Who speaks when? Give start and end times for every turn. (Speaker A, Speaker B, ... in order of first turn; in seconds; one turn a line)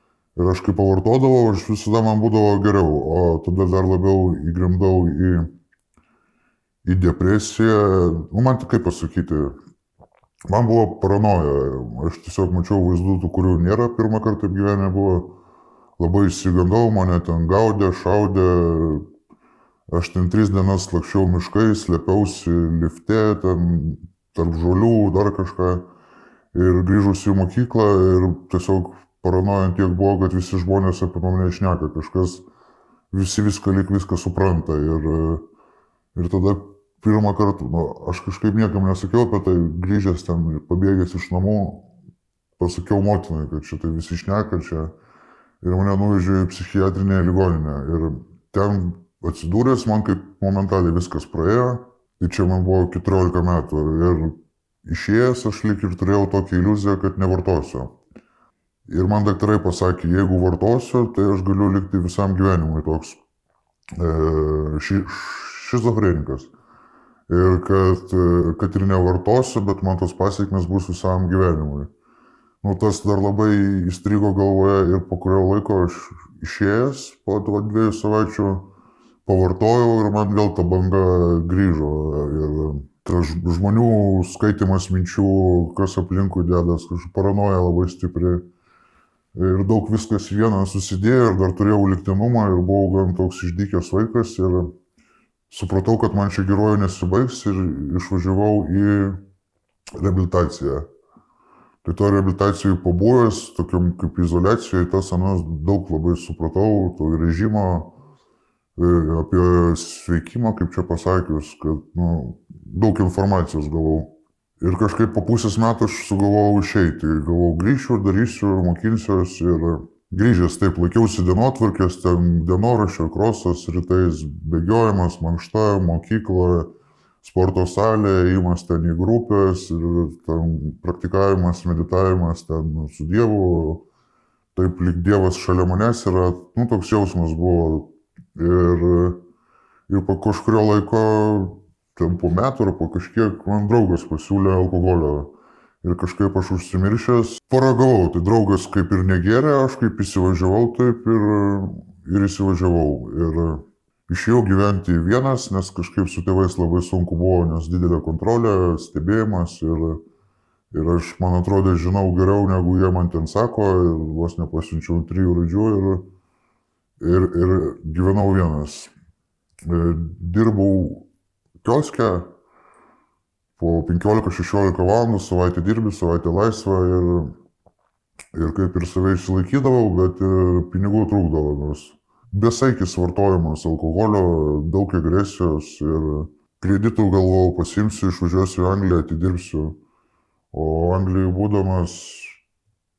Speaker A: 0.3-5.5
Speaker A: 6.8-9.5
Speaker A: 10.5-15.4
Speaker A: 16.0-19.0
Speaker A: 19.9-25.9
Speaker A: 26.5-32.5
Speaker A: 33.1-35.4
Speaker A: 36.1-41.9
Speaker A: 42.6-44.9
Speaker A: 45.6-57.9
Speaker A: 58.9-63.2
Speaker A: 64.0-66.5
Speaker A: 67.3-71.9
Speaker A: 72.6-78.7
Speaker A: 79.2-88.4
Speaker A: 89.3-94.7
Speaker A: 95.5-99.2
Speaker A: 100.0-100.8
Speaker A: 101.8-108.0
Speaker A: 108.8-126.7
Speaker A: 127.2-133.8
Speaker A: 134.5-139.2
Speaker A: 139.9-160.0
Speaker A: 160.7-166.1
Speaker A: 167.0-168.9
Speaker A: 169.6-171.1
Speaker A: 171.6-172.3
Speaker A: 173.6-177.3
Speaker A: 178.3-189.8
Speaker A: 190.5-192.4